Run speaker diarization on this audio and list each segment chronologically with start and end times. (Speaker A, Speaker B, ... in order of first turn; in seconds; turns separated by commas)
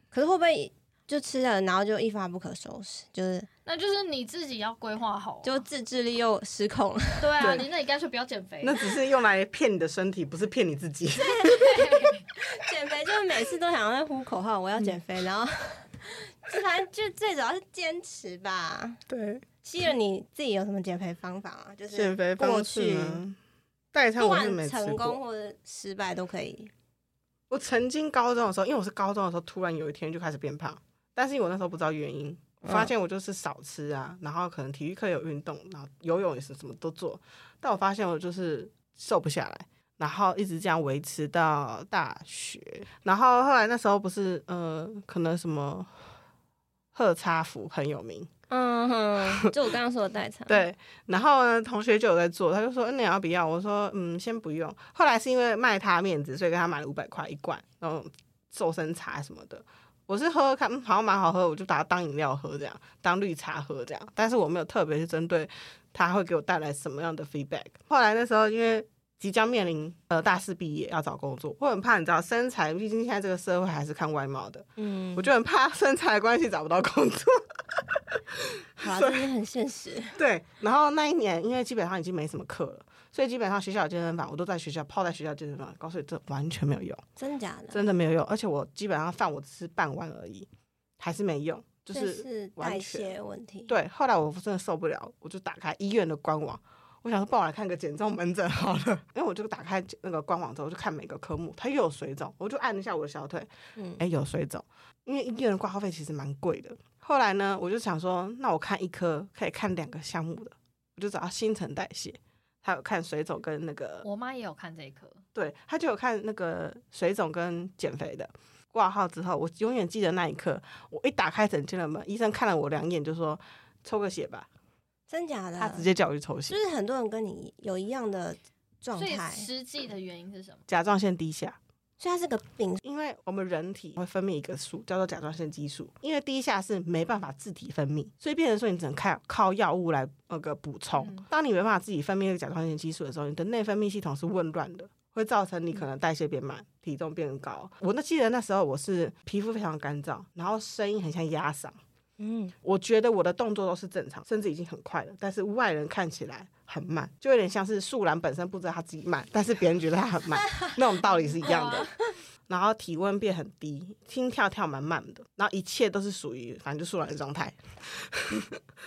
Speaker A: 0.1-3.5, Speaker B: 3.6-5.6, Speaker A: 5.4-7.5, Speaker B: 7.2-8.8, Speaker C: 7.4-7.7, Speaker C: 8.6-11.7, Speaker B: 11.4-12.2, Speaker A: 12.4-19.0, Speaker C: 19.1-19.4, Speaker A: 19.6-23.2, Speaker C: 21.9-23.4, Speaker C: 23.9-25.2, Speaker A: 24.2-26.7, Speaker C: 27.5-45.9, Speaker A: 32.6-32.9, Speaker C: 46.9-48.3, Speaker A: 48.5-50.6, Speaker C: 50.5-77.4, Speaker A: 74.8-75.3, Speaker C: 78.8-79.3, Speaker A: 78.8-80.1, Speaker C: 80.1-87.0, Speaker A: 87.2-87.8, Speaker C: 87.7-90.5, Speaker C: 91.0-93.1, Speaker A: 91.9-93.7, Speaker C: 93.7-114.1, Speaker A: 103.8-104.0, Speaker B: 114.0-115.2, Speaker C: 115.3-124.5, Speaker A: 125.1-125.9, Speaker C: 125.6-126.6, Speaker A: 126.5-129.5, Speaker B: 129.0-130.6, Speaker C: 130.7-131.6, Speaker A: 132.0-132.8, Speaker C: 132.8-151.8, Speaker B: 140.9-141.3, Speaker A: 152.2-152.5, Speaker C: 152.6-161.9, Speaker B: 161.1-161.9, Speaker C: 162.5-168.6